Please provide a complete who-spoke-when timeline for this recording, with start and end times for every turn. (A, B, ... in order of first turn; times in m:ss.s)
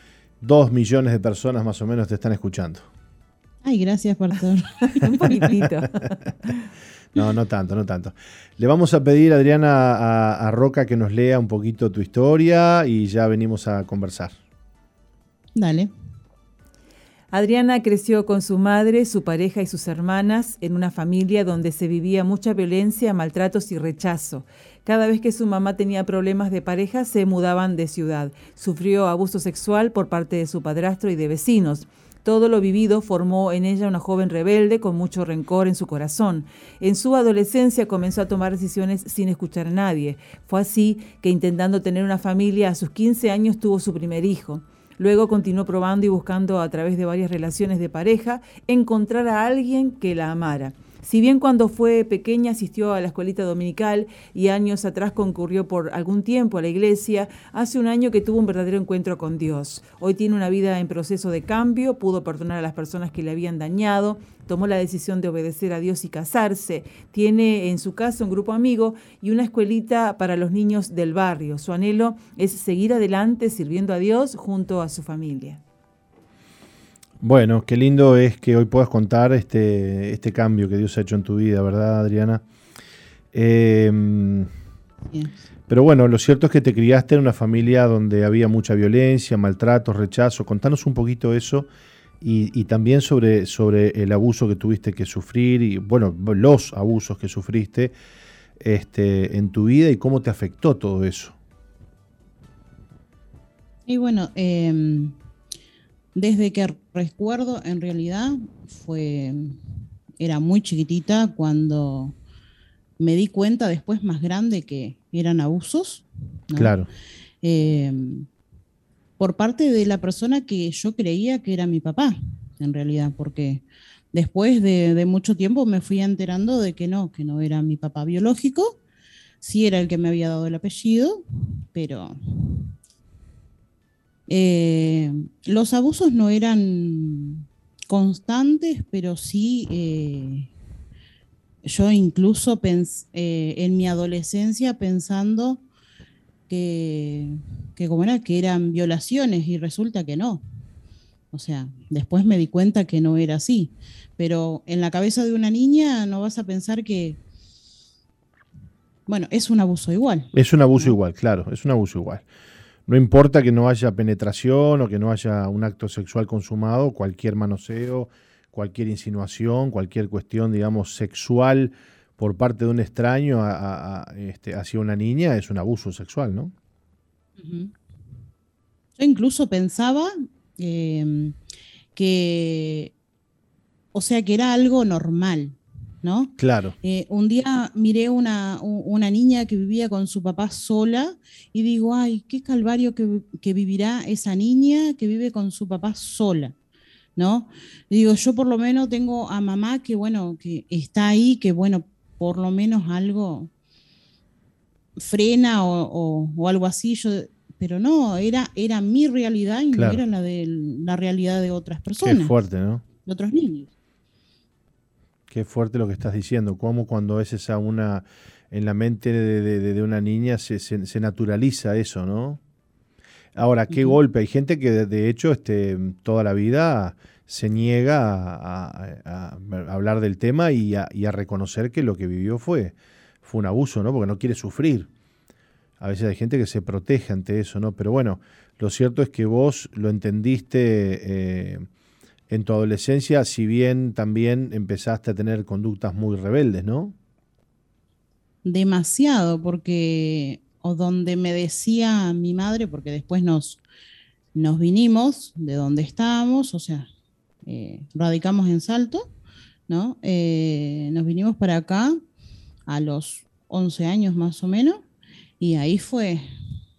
0:00.4-0:02.9 A
0:03.6-0:05.5 B
0:05.0-0:06.5 C
0:07.1-0:14.4 A
0:15.6-0:15.9 B
0:17.3-1:15.6 C
1:17.2-1:22.4 A
1:23.3-1:24.5 A
1:25.7-1:31.7 A
1:32.2-1:37.9 A
1:38.6-1:41.4 A
1:43.9-1:45.1 B
1:46.1-1:49.6 B
1:50.2-1:52.2 B
1:53.0-1:56.7 B
1:56.5-1:56.9 A
1:57.4-1:58.3 B
1:59.2-2:08.8 B
2:09.4-2:12.7 B
2:14.3-2:20.5 B
2:21.6-2:25.6 B
2:26.5-2:30.4 B
2:31.3-2:37.2 B
2:39.1-2:41.0 B
2:40.3-2:42.2 A
2:42.9-2:56.5 A
2:57.4-2:57.7 B
2:59.0-3:01.4 B
3:02.0-3:02.9 B
3:03.9-3:16.6 B
3:06.4-3:06.8 A
3:17.2-3:23.5 B
3:25.0-3:32.3 B
3:29.7-3:30.0 A
3:32.0-3:32.8 A
3:33.0-3:33.7 B
3:35.3-3:42.4 A
3:43.4-3:54.9 A
3:43.7-3:44.0 B
3:55.8-4:01.7 A
4:02.3-4:07.0 A
4:08.4-4:13.6 B
4:14.4-4:16.9 B
4:17.4-4:19.1 B
4:19.7-4:22.0 B
4:22.7-4:24.9 B
4:25.4-4:26.3 B